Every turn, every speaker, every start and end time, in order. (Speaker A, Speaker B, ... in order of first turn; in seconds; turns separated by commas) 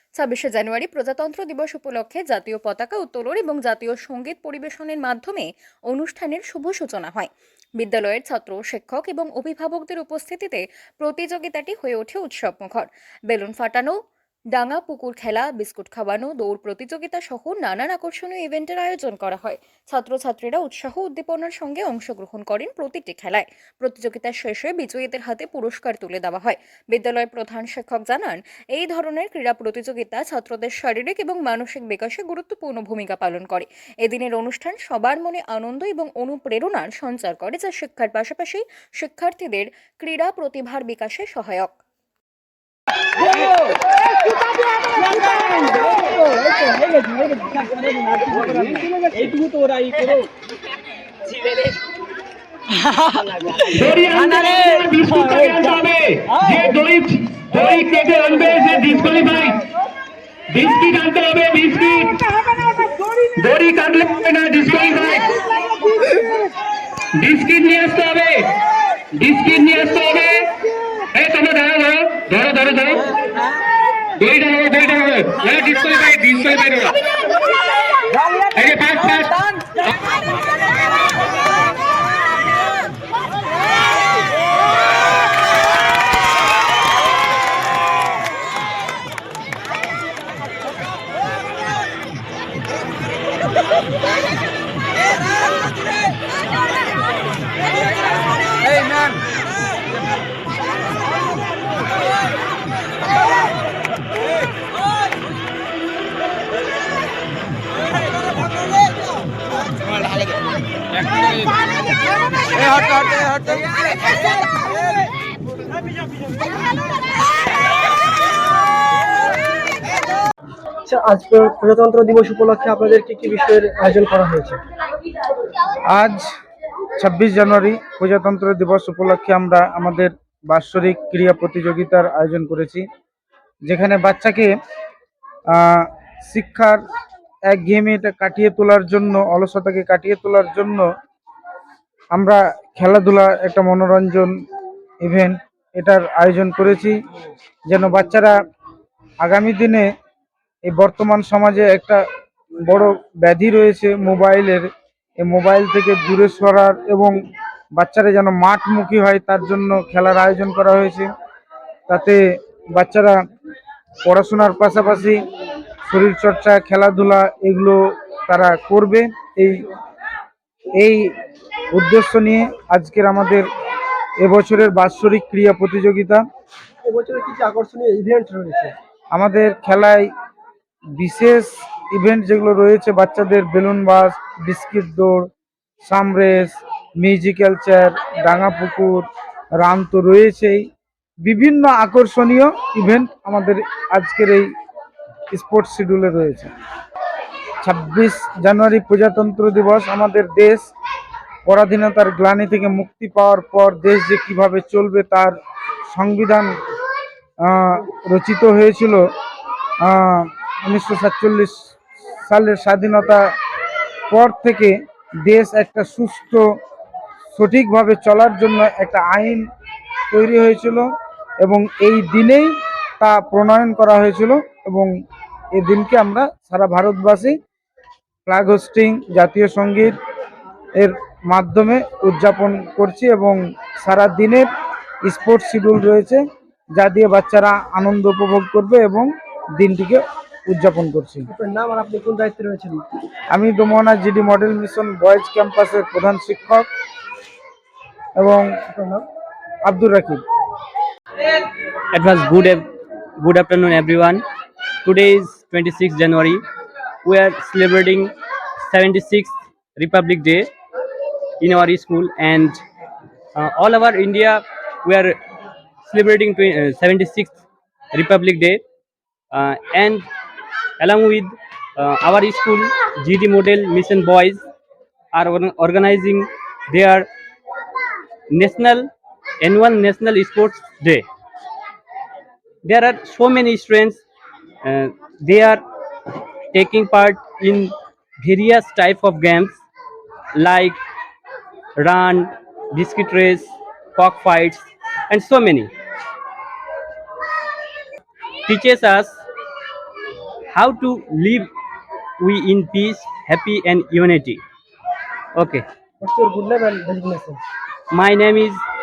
Speaker A: 0.2-14.0, Speaker A: 14.5-41.8, Speaker B: 43.3-43.7, Speaker B: 45.1-50.3, Speaker C: 53.7-59.6, Speaker C: 60.5-65.4, Speaker C: 67.1-68.6, Speaker C: 69.1-73.5, Speaker C: 74.2-77.0, Speaker C: 78.2-80.0, Speaker B: 120.9-124.6, Speaker D: 125.9-126.3, Speaker D: 127.0-132.8, Speaker D: 133.7-134.5, Speaker D: 135.5-136.8, Speaker D: 137.5-140.9, Speaker D: 142.1-144.3, Speaker D: 145.0-146.9, Speaker D: 147.7-148.3, Speaker D: 149.2-149.9, Speaker D: 150.7-152.0, Speaker D: 152.7-154.7, Speaker D: 155.2-157.2, Speaker D: 157.8-161.1, Speaker D: 161.9-162.2, Speaker D: 162.8-163.2, Speaker D: 164.1-165.2, Speaker D: 165.9-169.6, Speaker D: 170.8-171.1, Speaker D: 171.7-173.5, Speaker D: 174.2-176.2, Speaker B: 176.8-178.7, Speaker D: 179.1-180.1, Speaker D: 181.0-185.3, Speaker D: 185.8-189.1, Speaker D: 189.6-190.6, Speaker D: 191.2-194.5, Speaker D: 195.3-196.5, Speaker D: 197.6-200.7, Speaker D: 201.5-205.4, Speaker D: 205.9-206.5, Speaker D: 207.4-209.1, Speaker D: 209.8-211.6, Speaker D: 212.3-213.3, Speaker D: 214.1-214.7, Speaker D: 215.2-216.4, Speaker D: 217.3-219.4, Speaker D: 220.1-220.9, Speaker D: 221.4-224.9, Speaker D: 225.5-227.4, Speaker D: 228.3-230.0, Speaker D: 230.8-234.5, Speaker D: 235.1-236.2, Speaker D: 236.8-241.3, Speaker B: 241.3-242.8, Speaker D: 243.3-246.7, Speaker D: 248.2-248.5, Speaker B: 248.7-249.1, Speaker D: 249.7-250.2, Speaker E: 251.9-252.7, Speaker E: 253.2-254.2, Speaker E: 254.8-256.4, Speaker E: 257.0-260.5, Speaker E: 261.4-262.6, Speaker E: 263.4-265.2, Speaker E: 265.9-267.4, Speaker E: 267.9-268.6, Speaker E: 269.3-270.1, Speaker E: 270.8-274.4, Speaker E: 275.1-277.1, Speaker E: 278.3-278.9, Speaker E: 279.4-281.1, Speaker E: 282.6-284.0, Speaker E: 284.6-285.6, Speaker E: 286.5-289.6, Speaker E: 290.4-290.8, Speaker E: 291.8-295.7, Speaker E: 298.5-299.2, Speaker E: 300.5-301.5, Speaker E: 302.2-304.4, Speaker E: 305.4-305.6, Speaker B: 306.0-307.4, Speaker E: 307.9-308.6